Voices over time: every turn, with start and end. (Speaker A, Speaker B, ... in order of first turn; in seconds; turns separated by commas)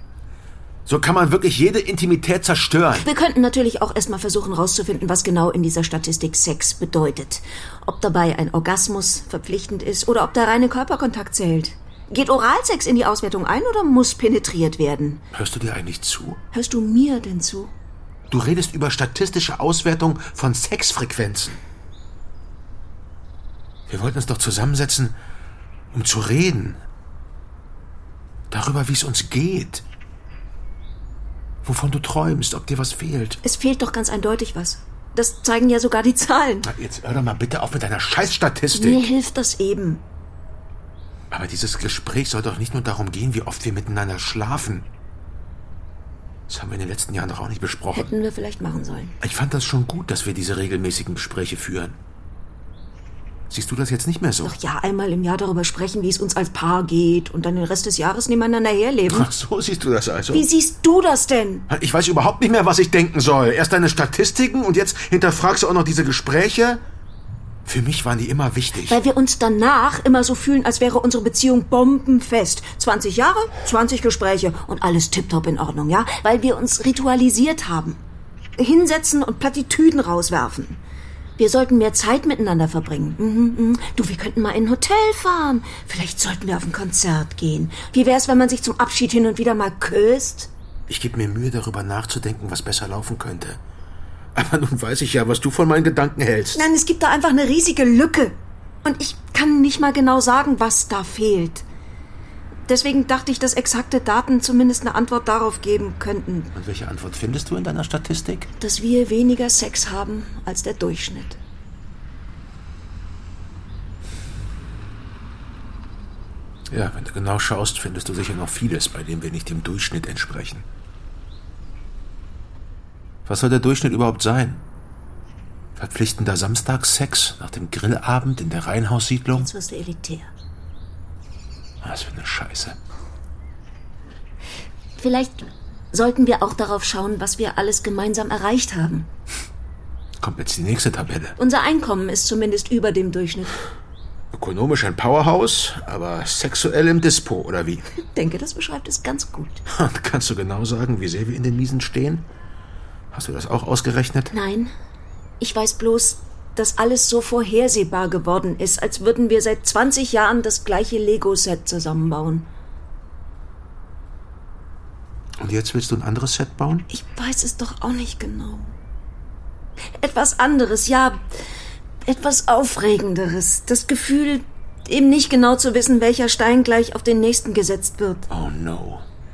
Speaker A: 0.8-3.1, Speaker B: 2.9-15.2, Speaker A: 15.3-16.4, Speaker B: 16.5-17.7, Speaker A: 18.3-21.6, Speaker A: 23.9-25.2, Speaker A: 25.9-26.8, Speaker A: 28.5-29.8, Speaker A: 31.6-33.4, Speaker B: 33.4-36.7, Speaker A: 36.6-39.1, Speaker B: 38.7-40.0, Speaker A: 41.3-44.9, Speaker A: 46.5-48.1, Speaker B: 47.9-49.2, Speaker A: 49.2-52.0, Speaker A: 53.5-54.5, Speaker B: 54.4-59.3, Speaker A: 59.1-60.5, Speaker B: 60.3-61.7, Speaker A: 61.7-66.8, Speaker A: 67.7-69.0, Speaker B: 68.9-78.0, Speaker B: 78.6-80.8, Speaker B: 81.4-90.5, Speaker A: 90.9-93.6, Speaker A: 94.3-96.6, Speaker B: 96.5-101.6, Speaker B: 102.7-106.5, Speaker A: 106.5-108.5, Speaker B: 108.6-111.4, Speaker A: 116.7-120.7, Speaker A: 123.2-124.6, Speaker A: 125.8-129.5, Speaker B: 129.3-130.3, Speaker A: 131.8-132.8, Speaker B: 135.0-139.1, Speaker A: 140.2-141.4, Speaker B: 141.4-143.6, Speaker A: 144.3-147.8, Speaker B: 148.0-149.6, Speaker A: 149.7-152.3, Speaker A: 153.1-154.3, Speaker B: 154.3-154.7, Speaker B: 155.4-162.5, Speaker A: 165.4-166.9, Speaker B: 166.9-168.7, Speaker B: 169.9-171.2, Speaker B: 172.0-178.3, Speaker A: 178.3-179.0